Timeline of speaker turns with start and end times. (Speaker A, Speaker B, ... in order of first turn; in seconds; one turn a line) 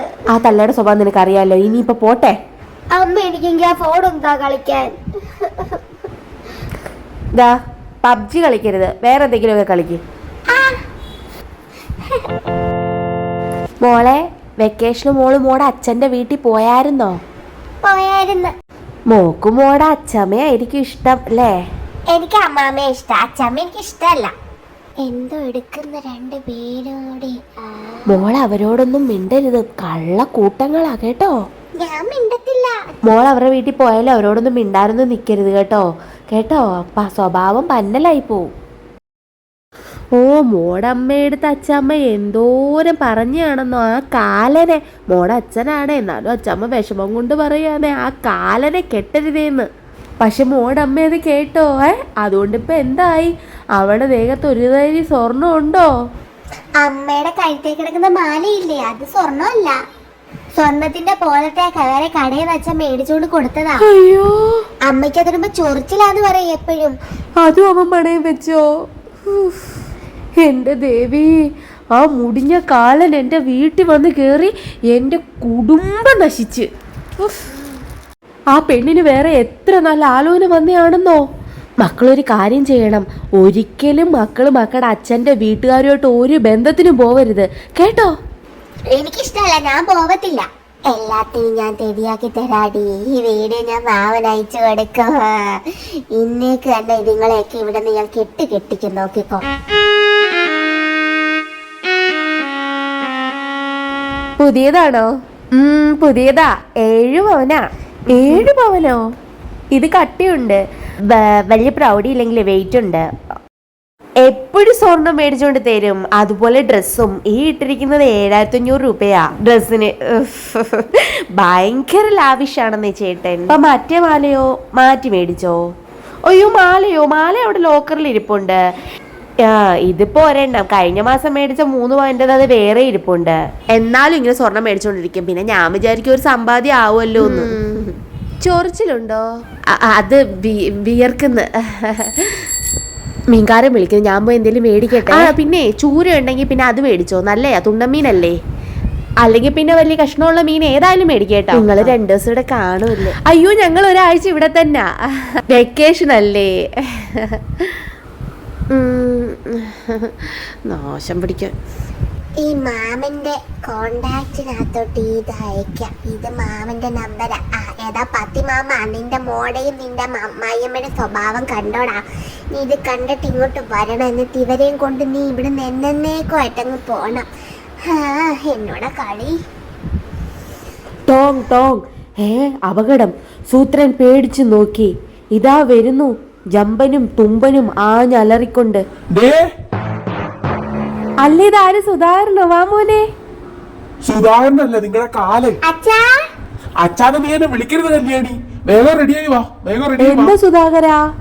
Speaker A: 0.3-2.4
Speaker B: 2.9-4.9
Speaker A: 7.3-10.0
Speaker B: 10.5-10.8
Speaker A: 13.8-17.2
Speaker B: 17.8-18.5
Speaker A: 19.1-21.5
Speaker B: 22.1-24.3
Speaker B: 25.0-28.2
Speaker A: 28.1-31.3
Speaker B: 31.8-32.7
Speaker A: 33.1-38.5
Speaker A: 40.1-49.7
Speaker A: 50.2-55.9
Speaker B: 56.8-59.7
Speaker B: 60.6-63.9
Speaker B: 64.8-66.9
Speaker A: 67.4-68.6
Speaker A: 70.5-71.2
Speaker A: 72.0-76.7
Speaker A: 78.6-81.2
Speaker A: 81.8-88.1
Speaker B: 88.9-99.5
Speaker A: 104.5-109.0
Speaker A: 109.7-113.0
Speaker A: 114.2-120.8
Speaker A: 121.4-125.6
Speaker A: 126.3-128.6
Speaker A: 129.4-137.5
Speaker A: 138.4-139.2
Speaker A: 139.7-142.4
Speaker A: 143.3-148.4
Speaker A: 149.2-157.3
Speaker A: 158.7-161.5
Speaker B: 162.4-172.0
Speaker B: 172.5-177.3
Speaker B: 177.9-179.3
Speaker A: 181.1-188.8
Speaker C: 189.1-189.4
Speaker A: 191.3-193.0
Speaker C: 194.0-195.6
Speaker B: 195.7-196.2
Speaker C: 196.8-200.4
Speaker A: 200.1-201.0